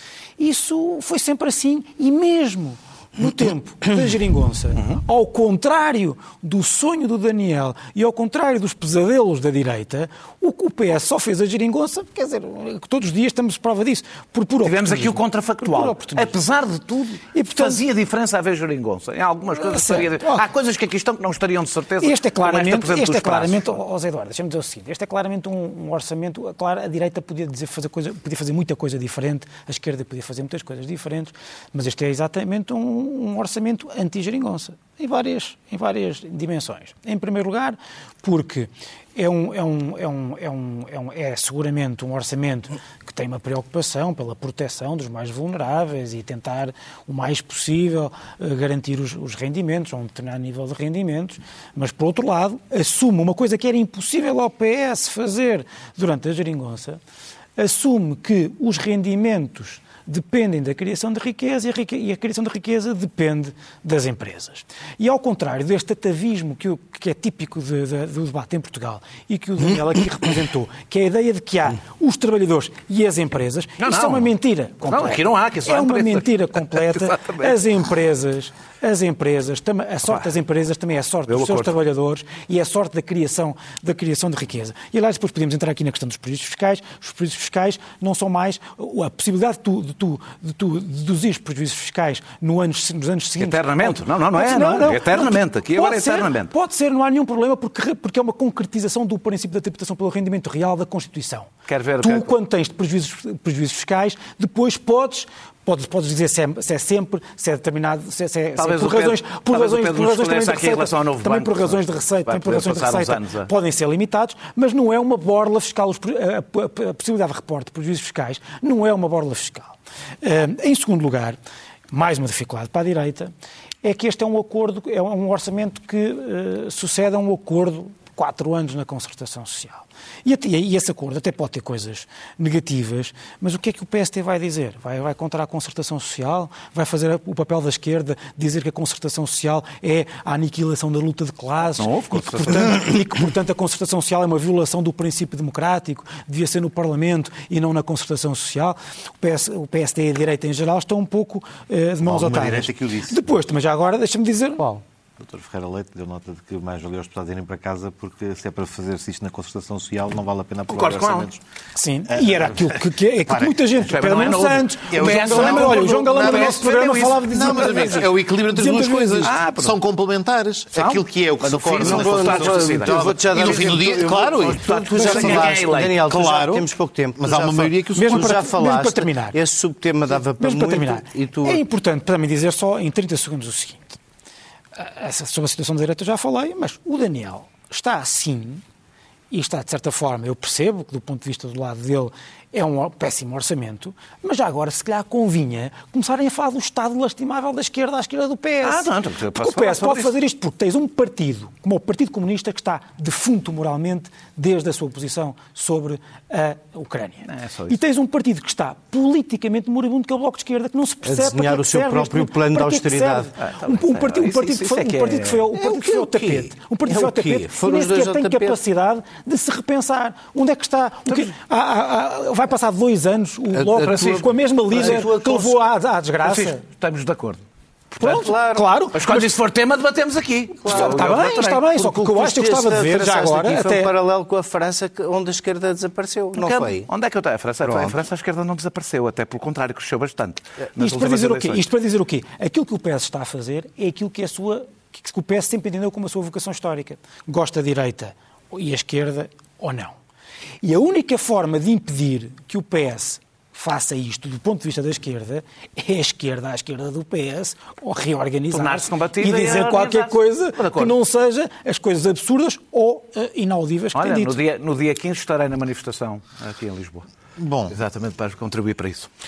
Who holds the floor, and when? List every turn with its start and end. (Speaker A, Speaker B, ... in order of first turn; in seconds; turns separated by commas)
Speaker A: 0.4-16.4, Speaker B: 4.8-5.0, Speaker B: 14.6-23.8, Speaker A: 17.3-17.8, Speaker A: 19.6-20.4, Speaker A: 22.0-57.0, Speaker A: 57.6-101.5, Speaker B: 73.8-74.3, Speaker B: 74.9-77.5, Speaker B: 81.3-81.7, Speaker B: 93.4-96.5, Speaker B: 101.7-102.3, Speaker A: 102.0-121.4, Speaker B: 108.6-113.5, Speaker A: 121.9-123.3, Speaker A: 123.8-154.8, Speaker B: 141.8-142.8, Speaker C: 152.0-153.3, Speaker C: 155.2-161.4, Speaker B: 160.7-161.3, Speaker A: 161.8-169.7, Speaker C: 162.1-163.7, Speaker B: 163.8-168.1, Speaker C: 164.9-176.7, Speaker B: 169.2-169.6, Speaker B: 170.7-176.0, Speaker D: 171.8-181.6, Speaker C: 177.2-178.5, Speaker A: 177.9-179.4, Speaker A: 180.2-184.0, Speaker A: 184.8-188.6, Speaker A: 189.3-226.6, Speaker B: 198.6-200.1, Speaker B: 207.2-207.8, Speaker D: 211.0-213.3, Speaker B: 213.4-215.4, Speaker D: 215.5-218.6, Speaker D: 223.5-225.5, Speaker B: 224.0-224.2, Speaker B: 224.7-225.1, Speaker B: 226.2-227.4, Speaker B: 227.9-228.3, Speaker D: 228.0-228.7, Speaker A: 228.0-229.3, Speaker B: 228.9-232.1, Speaker D: 230.6-236.9, Speaker A: 230.7-233.9, Speaker B: 236.3-241.6, Speaker D: 237.6-238.0, Speaker A: 240.8-250.0, Speaker A: 250.6-264.4, Speaker B: 258.5-260.9, Speaker B: 263.9-267.1, Speaker C: 267.4-267.8, Speaker B: 267.7-269.1